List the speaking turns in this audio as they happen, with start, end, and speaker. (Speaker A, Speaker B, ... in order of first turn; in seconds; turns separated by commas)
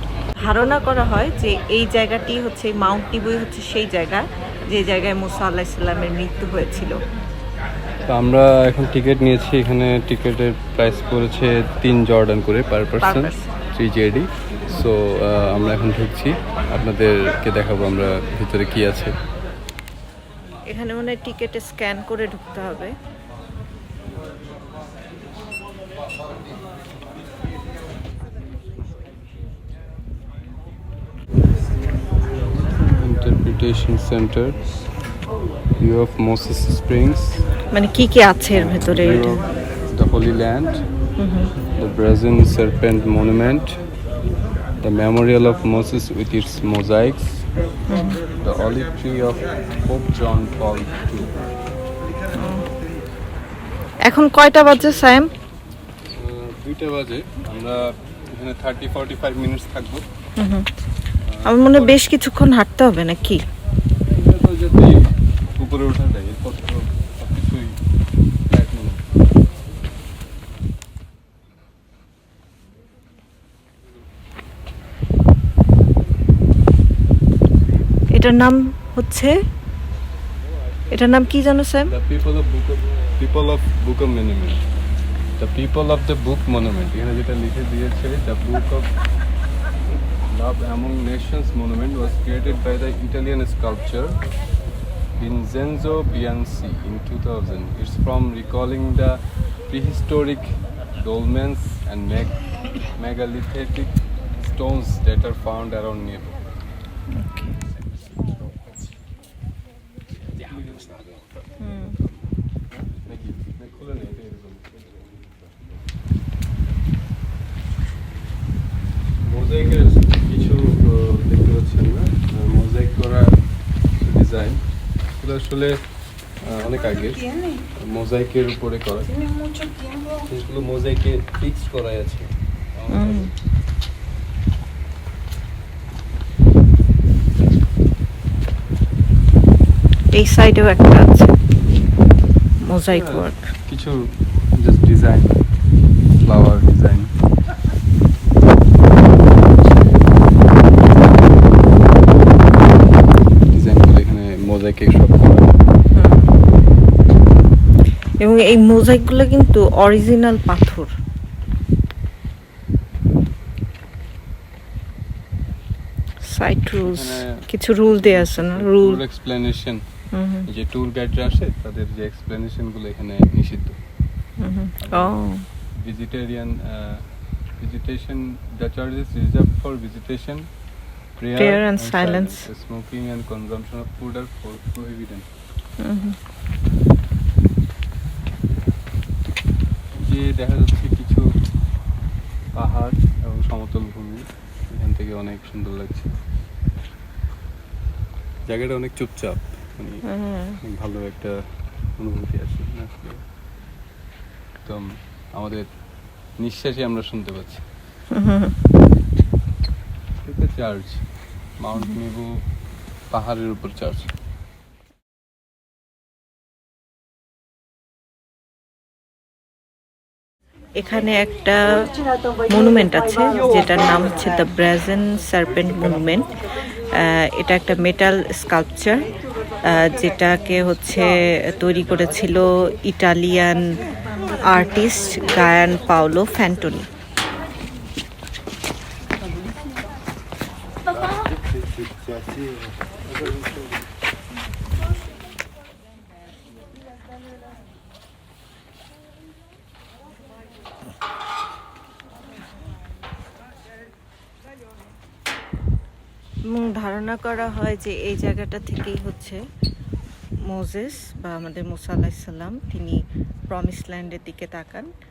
Speaker A: 0.4-7.0, Speaker B: 8.1-19.2, Speaker A: 13.0-13.5, Speaker A: 20.7-22.9, Speaker B: 32.9-34.8, Speaker B: 35.8-37.5, Speaker A: 37.7-39.4, Speaker B: 38.5-40.8, Speaker A: 41.2-41.5, Speaker B: 41.8-43.8, Speaker B: 44.8-47.5, Speaker A: 47.9-48.2, Speaker B: 48.4-51.4, Speaker A: 52.3-52.7, Speaker A: 54.1-55.3, Speaker B: 56.1-60.0, Speaker A: 60.4-60.7, Speaker B: 61.2-62.0, Speaker A: 61.5-63.4, Speaker B: 64.1-67.8, Speaker B: 68.5-69.0, Speaker A: 78.1-79.3, Speaker A: 80.9-81.9, Speaker B: 81.9-84.6, Speaker B: 85.4-88.9, Speaker B: 90.3-94.2, Speaker B: 95.2-106.4, Speaker A: 107.1-107.5, Speaker B: 110.7-111.0, Speaker A: 111.6-112.0, Speaker B: 113.0-115.1, Speaker B: 119.2-123.4, Speaker B: 124.0-125.7, Speaker B: 126.4-129.5, Speaker B: 130.2-133.3, Speaker A: 132.9-133.3, Speaker A: 140.1-141.3, Speaker A: 142.6-143.5, Speaker B: 142.9-145.4, Speaker B: 146.1-147.1, Speaker B: 149.6-150.3, Speaker B: 153.5-155.6, Speaker A: 155.9-156.3, Speaker A: 158.2-160.9, Speaker A: 166.2-169.0, Speaker B: 166.8-169.8, Speaker A: 170.1-170.5, Speaker B: 170.5-173.8, Speaker A: 174.4-175.4, Speaker B: 174.8-175.2, Speaker B: 175.8-180.5, Speaker B: 181.2-185.3, Speaker A: 181.4-182.4, Speaker A: 185.8-186.2, Speaker B: 189.9-191.3, Speaker B: 192.6-196.1, Speaker B: 198.5-200.1, Speaker A: 200.1-200.6, Speaker B: 200.6-201.4, Speaker B: 202.0-203.2, Speaker B: 204.7-205.7, Speaker B: 206.4-207.6, Speaker A: 208.1-208.6, Speaker B: 210.2-211.0, Speaker B: 211.6-212.4, Speaker B: 213.1-214.1, Speaker A: 220.8-221.9, Speaker A: 222.5-229.1, Speaker A: 229.7-236.9, Speaker B: 243.2-243.5, Speaker A: 256.5-259.4, Speaker A: 260.5-263.0, Speaker A: 263.5-264.9